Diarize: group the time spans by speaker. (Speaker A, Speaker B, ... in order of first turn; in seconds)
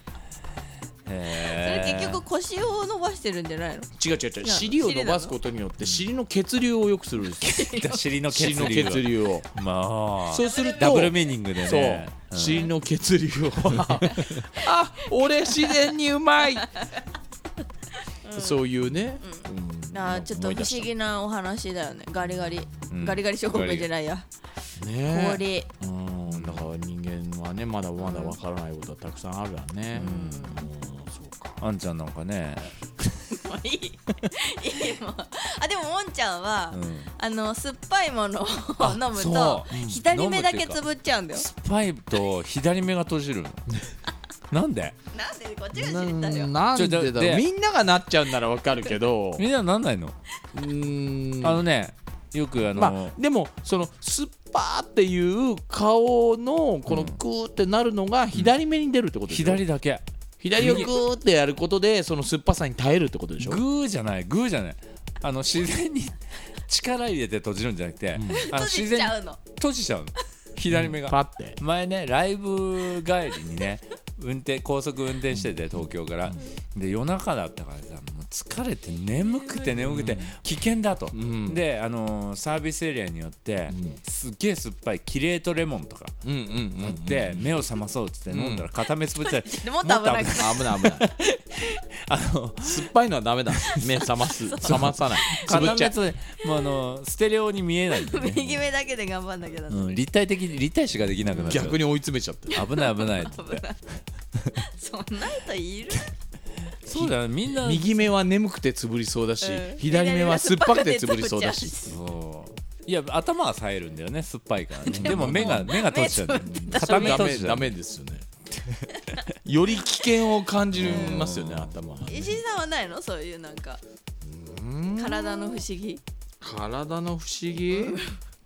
Speaker A: 1.1-2.2, 7.4-12.7, 13.7-14.5, 22.9-23.9, 26.3-26.7, 29.9-30.3, 31.6-33.3, 36.7-37.1, 38.8-40.8, 41.3-43.7, 44.5-45.0, 46.8-47.4, 49.4-50.2, 51.4-53.2, 56.9-57.2, 59.3-60.0, 60.6-60.9, 63.4-86.2, 86.8-92.9, 93.6-94.1, 94.6-98.6, 99.7-101.8, 102.5-103.7, 106.8-108.0, 111.9-117.7, 120.8-121.7
Speaker B: 1.3-5.3, 7.4-8.1, 10.4-10.9, 12.4-12.7, 14.0-14.4, 15.4-15.7, 16.6-16.9, 18.1-18.6, 19.2-24.2, 25.1-25.7, 28.0-28.4, 29.9-30.7, 33.3-41.5, 45.1-46.5, 60.6-61.0, 68.3-69.4, 79.2-79.9, 89.2-90.7, 94.3-95.8, 96.4-96.8, 98.0-100.0, 101.3-101.7, 102.5-103.8, 104.5-106.1, 109.4-112.0, 114.8-117.3, 118.9-119.2, 120.8-121.3, 122.1-123.8, 125.0-126.0, 127.7-128.2
Speaker C: 4.0-7.7, 8.3-9.5, 10.3-16.7, 18.4-20.9, 24.8-31.6, 39.7-40.0, 45.7-49.5, 50.5-51.6, 52.7-59.6, 60.4-63.6, 68.2-68.5, 70.7-71.6, 79.8-80.3, 81.1-81.6, 83.7-84.0, 86.2-87.6, 88.3-88.7, 90.3-91.1, 92.6-96.0, 101.4-102.6, 106.9-112.0, 114.9-115.7, 116.4-118.3, 119.5-122.4, 124.2-125.7, 126.4-128.0